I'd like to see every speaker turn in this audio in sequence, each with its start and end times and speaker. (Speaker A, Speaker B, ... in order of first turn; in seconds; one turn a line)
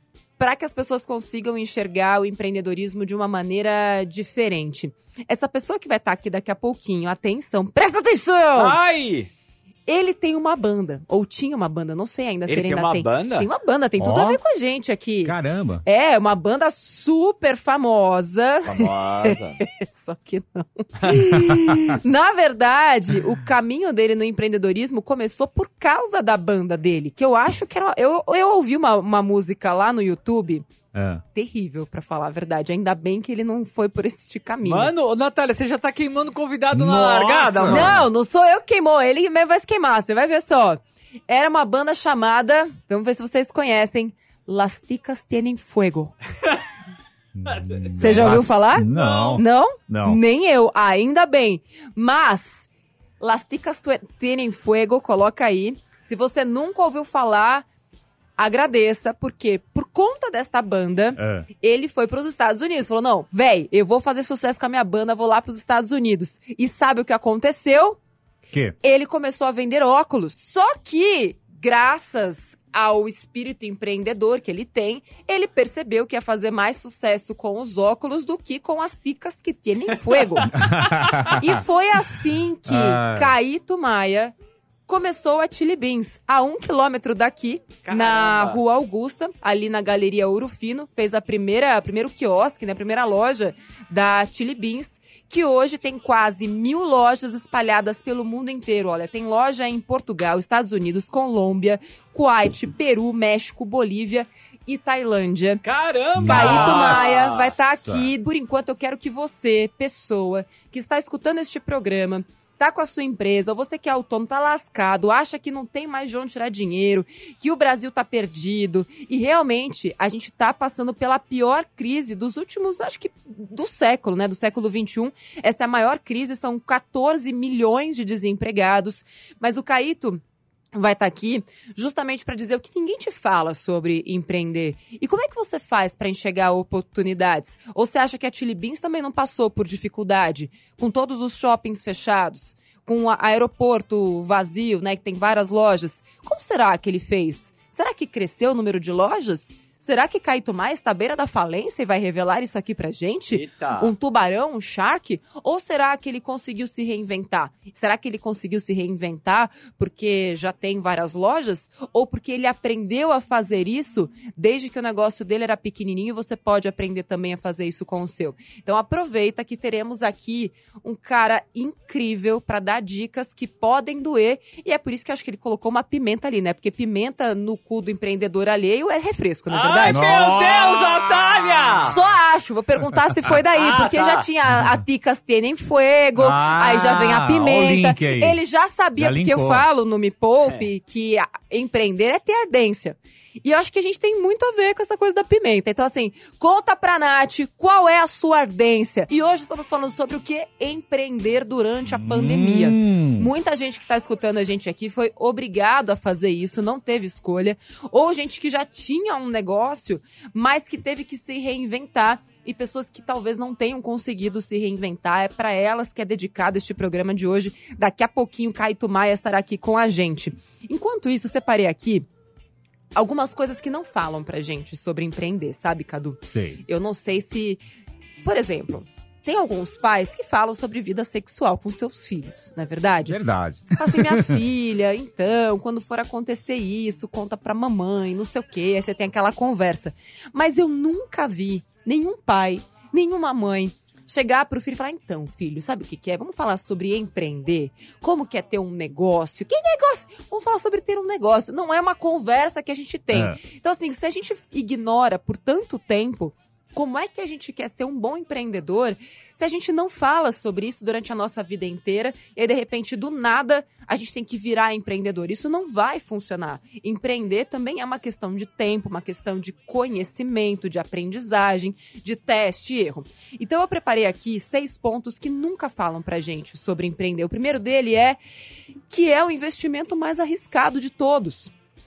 Speaker A: 0.4-8.8
Speaker B: 8.6-9.3
Speaker A: 9.9-30.7
Speaker B: 12.5-13.5
Speaker C: 14.0-14.4
Speaker C: 15.2-15.8
Speaker B: 18.6-19.6
Speaker C: 21.1-21.9
Speaker C: 30.9-31.2
Speaker A: 31.3-34.9
Speaker B: 34.6-38.0
Speaker C: 36.7-38.1
Speaker A: 37.7-46.1
Speaker C: 47.4-50.2
Speaker B: 47.5-49.4
Speaker A: 48.0-52.7
Speaker A: 53.2-57.6
Speaker A: 58.4-68.0
Speaker C: 61.1-61.5
Speaker A: 68.8-80.7
Speaker C: 80.5-81.4
Speaker A: 81.2-84.3
Speaker C: 82.7-83.3
Speaker A: 84.9-105.6
Speaker B: 87.8-88.6
Speaker B: 105.6-107.5
Speaker C: 106.2-108.1
Speaker A: 106.2-130.2
Speaker A: 130.7-180.0
Speaker B: 153.3-153.9
Speaker B: 179.5-181.9
Speaker C: 179.9-180.8
Speaker A: 181.9-222.1
Speaker B: 183.5-184.3
Speaker C: 186.2-188.4
Speaker C: 188.9-189.7
Speaker C: 201.9-203.3
Speaker A: 222.9-227.6
Speaker C: 226.2-226.6
Speaker A: 228.2-233.2
Speaker C: 233.1-234.4
Speaker A: 233.7-278.2
Speaker C: 253.1-253.4
Speaker A: 278.9-281.5